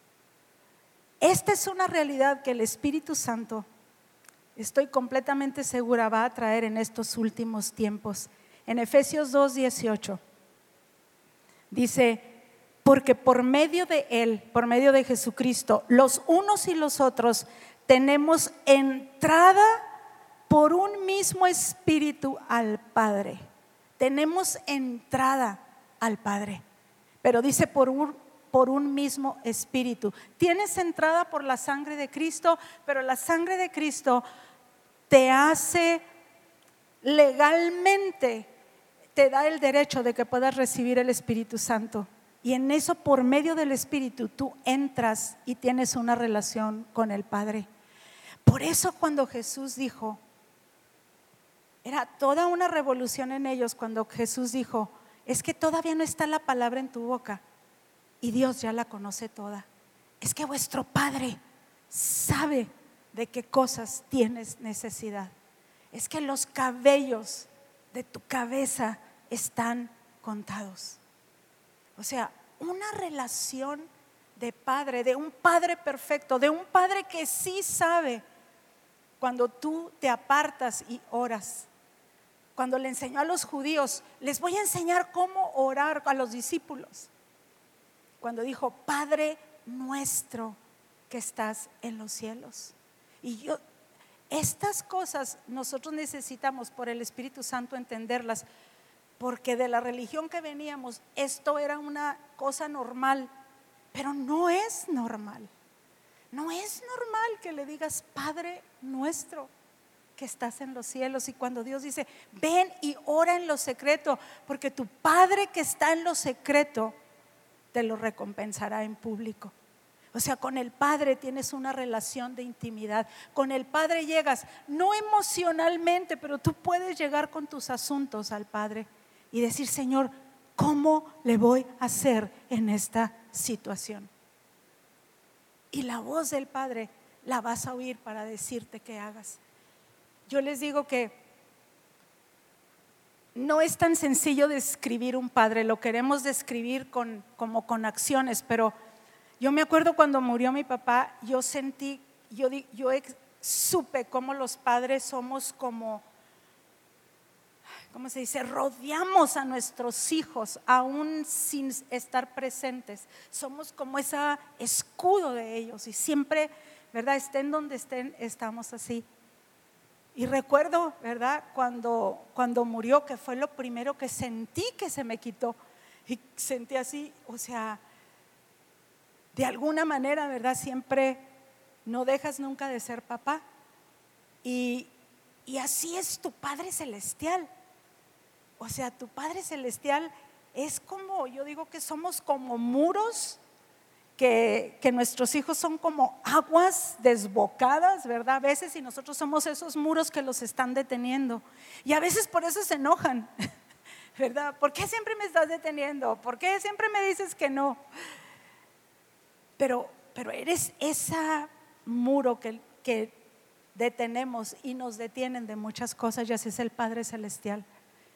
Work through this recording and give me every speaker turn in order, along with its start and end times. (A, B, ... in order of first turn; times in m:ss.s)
0:01.2-0:03.7 A
0:04.6-0:10.2 A
0:11.7-0:19.8 A
0:20.5-0:23.4 A
0:24.0-0:26.6 A
0:27.2-0:34.2 A
0:35.1-0:36.0 A
0:37.0-0:38.5 A
0:39.2-0:47.7 A
0:48.4-0:50.2 A
0:51.8-0:57.4 A
0:58.2-0:59.7 A
1:00.2-1:01.4 A
1:01.9-1:05.3 A
1:05.9-1:11.0 A
1:12.0-1:18.2 A
1:19.2-1:21.7 A
1:22.6-1:27.1 A
1:28.2-1:30.6 A
1:31.1-1:33.6 A
1:34.3-1:38.4 A
1:39.2-1:43.3 A
1:43.9-1:45.5 A
1:46.3-1:49.5 A
1:50.2-1:56.9 A
1:57.7-1:59.6 A
2:00.1-2:14.1 A
2:15.7-2:19.4 A
2:20.3-2:21.2 A
2:23.4-2:28.7 A
2:29.4-2:36.0 A
2:37.9-2:49.1 A
2:50.2-2:57.8 A
2:59.3-3:01.3 A
3:01.9-3:03.4 A
3:04.4-3:04.9 A
3:05.5-3:07.5 A
3:08.6-3:13.4 A
3:14.2-3:23.3 A
3:24.2-3:27.8 A
3:29.6-3:33.2 A
3:33.8-3:37.6 A